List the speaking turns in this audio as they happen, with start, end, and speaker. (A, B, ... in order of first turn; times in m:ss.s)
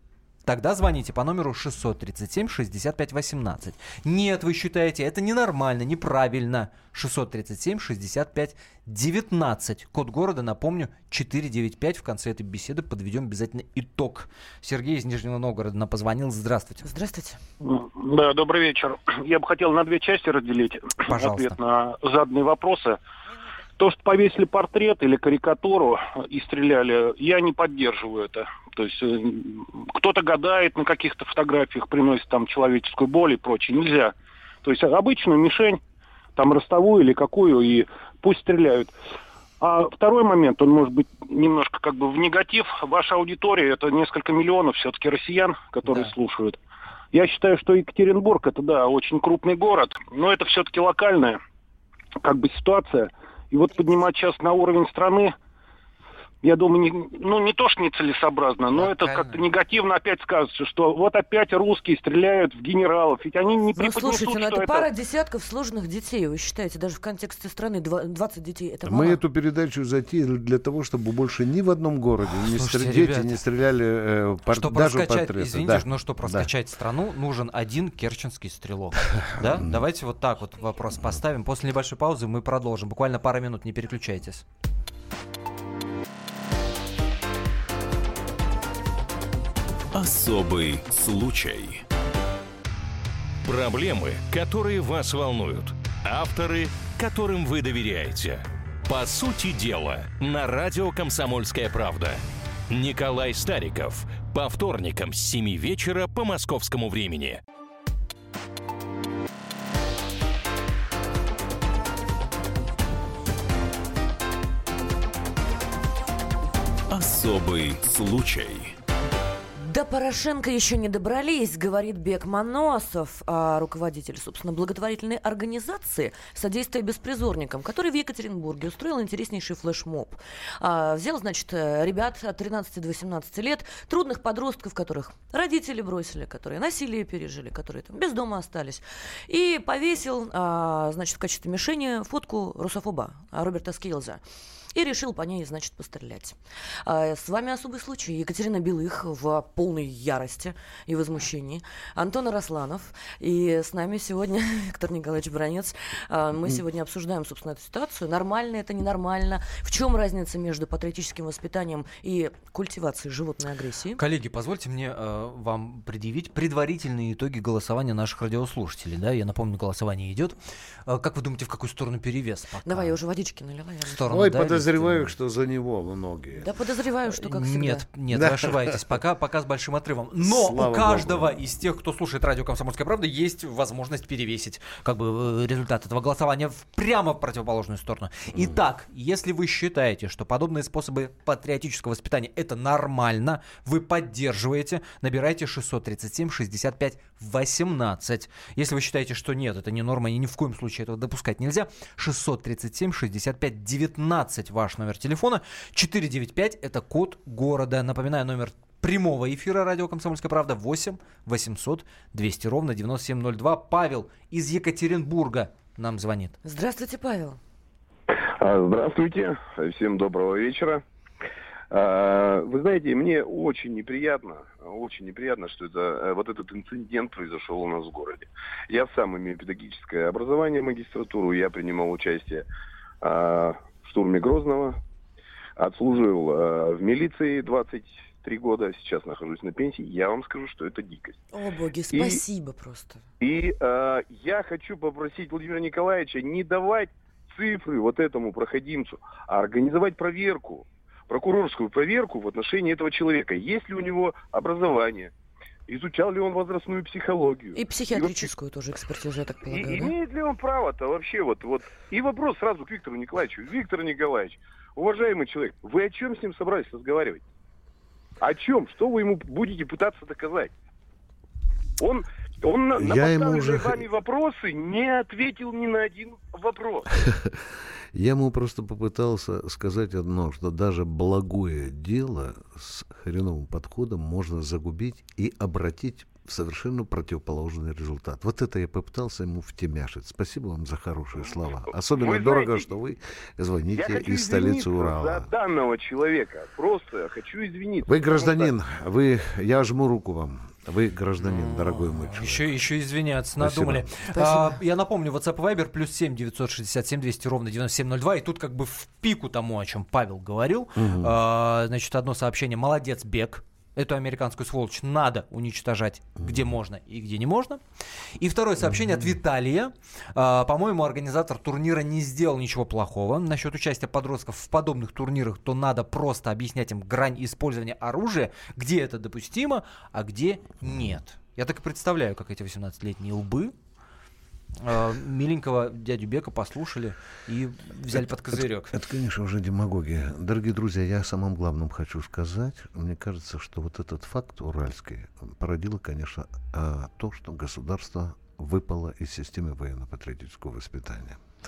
0:00.4-0:16.9 A
0:16.8-0:17.4 B
0:17.6-0:23.0 C
0:21.0-0:21.6 A
0:23.8-0:35.8 C
0:36.4-0:38.9 C
0:39.6-0:46.6 C
0:47.1-0:51.4 C
0:52.2-0:55.3 C
0:56.4-1:04.9 C
0:58.8-0:59.4 A
1:03.8-1:09.2 B
1:08.8-1:16.5 D
1:12.3-1:13.4 A
1:14.5-1:24.4 A
1:19.1-1:19.8 D
1:29.9-1:31.8 E
1:33.4-1:47.4 E
1:56.9-1:58.7 E
1:59.6-2:24.2 B
2:24.7-2:44.0 B
2:44.0-2:52.9 A
2:52.6-2:54.2 B
2:53.8-2:55.1 A
2:54.1-2:56.5 D
2:56.4-2:57.8 B
2:57.1-3:36.4 A
2:58.1-2:58.8 D
3:00.2-3:01.5 D
3:08.3-3:08.6 D
3:36.4-3:37.4 B
3:38.1-3:40.8 F
3:41.7-3:52.4 F
3:53.0-3:54.8 F
3:55.6-4:01.2 F
4:01.3-4:03.0 B
4:01.9-4:02.2 F
4:03.2-4:15.1 F
4:15.7-4:18.3 F
4:17.5-4:19.9 B
4:19.4-4:27.2 F
4:28.2-4:30.5 F
4:31.8-4:36.9 F
4:32.7-4:33.9 D
4:37.0-4:37.4 D
4:37.9-4:55.3 D
4:51.2-4:52.7 F
4:53.7-4:58.5 F
4:57.8-5:02.6 D
5:01.2-5:17.6 A
5:03.4-5:03.9 D
5:04.1-5:04.6 B
5:10.8-5:11.1 D
5:18.2-5:33.5 A
5:18.6-5:19.2 D
5:30.6-5:31.0 D
5:34.6-5:38.7 A
5:37.9-5:51.2 D